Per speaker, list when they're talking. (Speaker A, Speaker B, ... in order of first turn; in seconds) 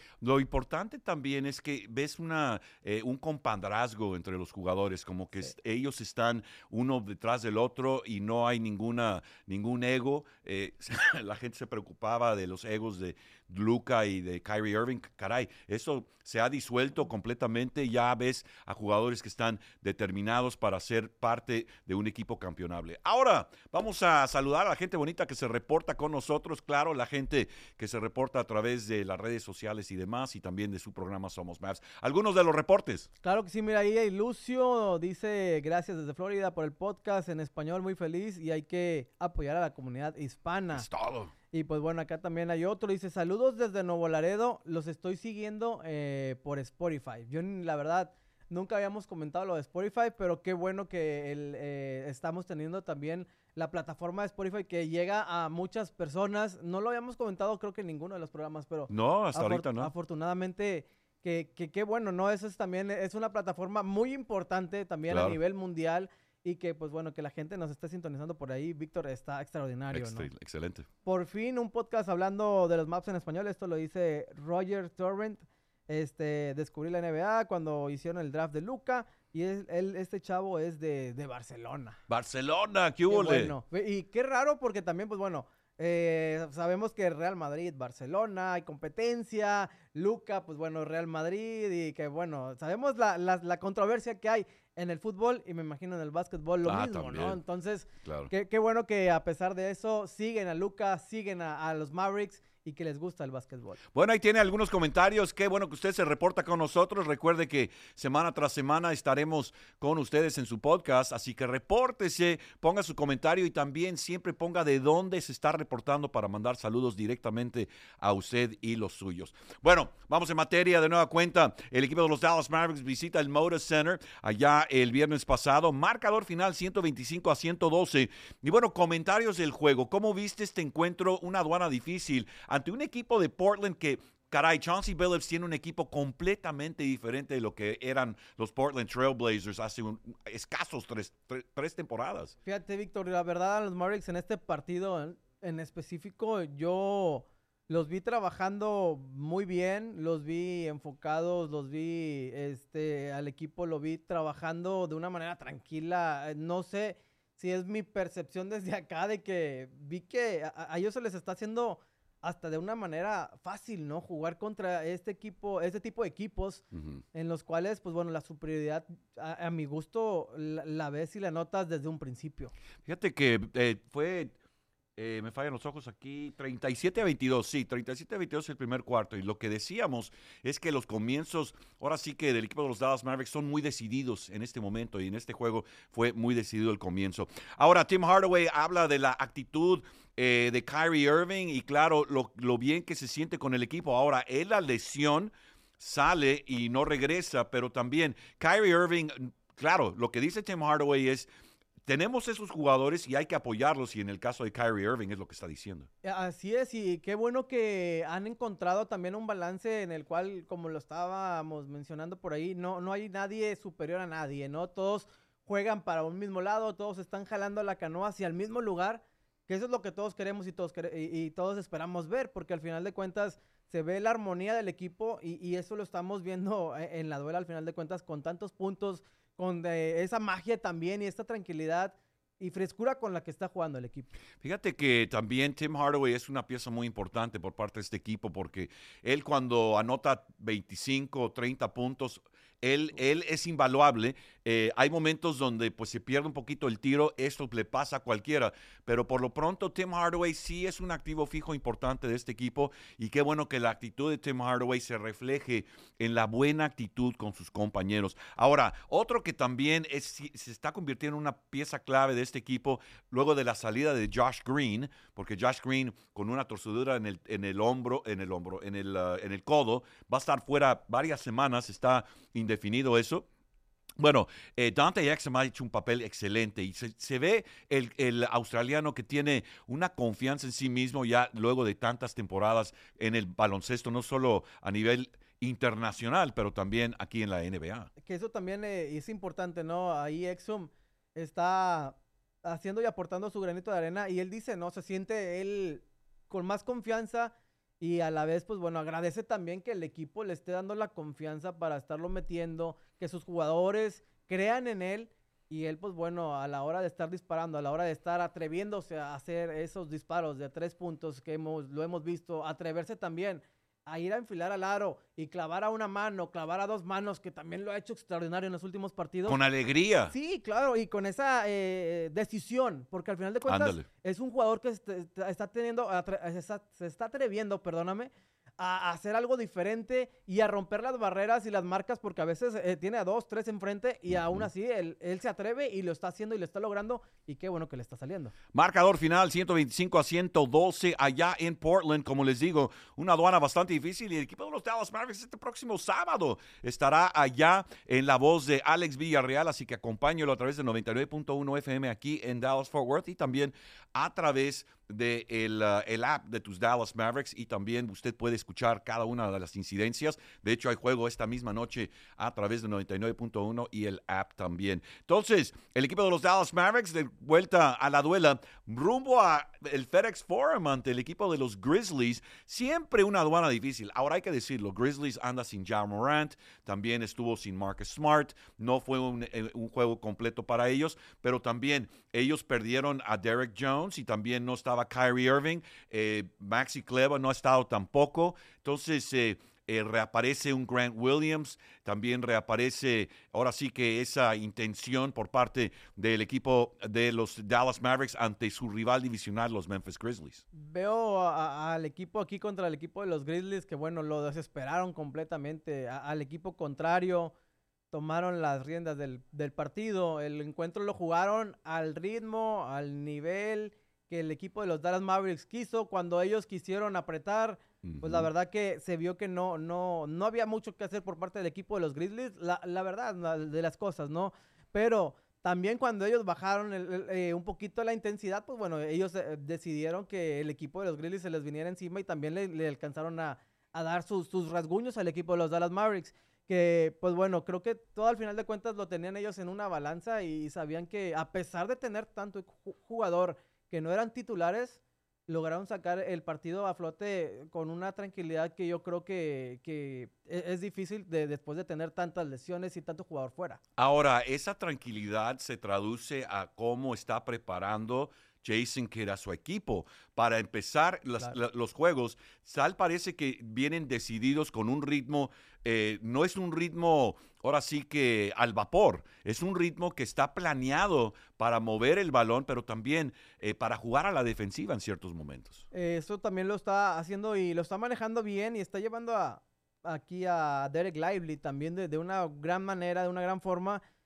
Speaker A: 0.2-33.1, 40.7-41.3, 58.9-59.9, 65.1-65.4, 69.9-70.9, 82.1-83.5, 96.7-97.4, 98.0-98.3, 103.9-142.3, 166.7-167.0, 172.8-174.4, 175.0-201.3, 201.9-205.9, 234.4-273.3, 274.0-287.9, 319.3-320.1, 323.5-323.9, 334.1-334.4, 338.5-400.4, 417.8-418.3, 453.8-475.6
Speaker B: 33.2-40.9, 41.5-70.3, 71.0-82.0, 83.1-103.8, 142.4-172.5, 206.0-234.1, 288.0-319.4, 320.1-338.3, 400.5-407.3, 407.9-453.6, 475.7-483.8